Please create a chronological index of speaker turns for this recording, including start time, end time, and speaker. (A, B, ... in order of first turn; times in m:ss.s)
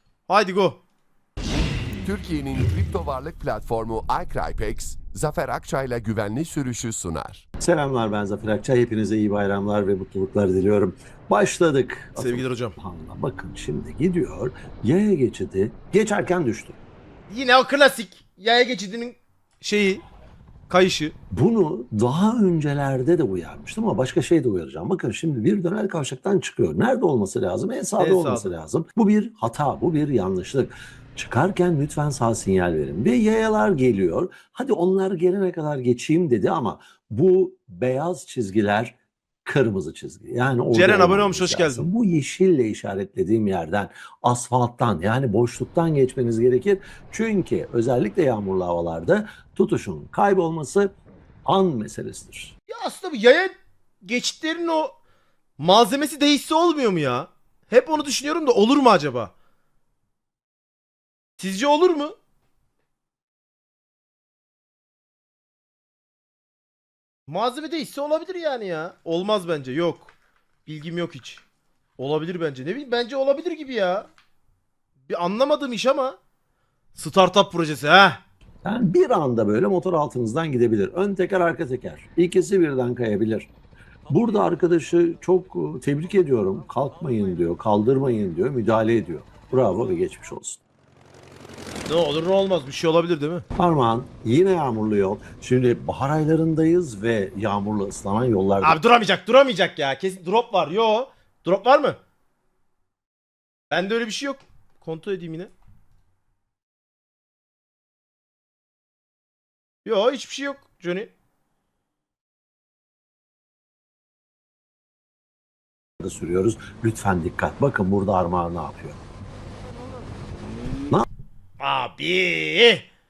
0:00.3-0:00.8 A
0:02.0-0:07.4 B
0:07.6-0:16.8 C
0:12.1-0:12.8 A
0:17.3-0:20.0 A
0:20.7-0:21.1 A
0:21.3-0:50.9 C
0:28.0-0:28.5 A
0:40.7-0:41.9 A
0:51.4-0:52.5 C
0:52.7-0:54.9 A
0:55.6-0:59.3 A
1:01.4-1:02.1 A
1:07.3-1:10.1 A
1:10.6-1:11.4 A
1:12.0-1:14.1 A
1:15.1-1:16.2 A
1:16.9-1:18.2 A
1:18.6-1:23.5 C
1:24.1-1:30.6 C
1:31.9-1:33.4 A
1:33.6-1:38.8 C
1:38.6-1:42.0 A
1:43.7-1:45.5 A
1:49.8-1:51.1 A
1:56.0-1:59.0 C
2:01.6-2:02.9 A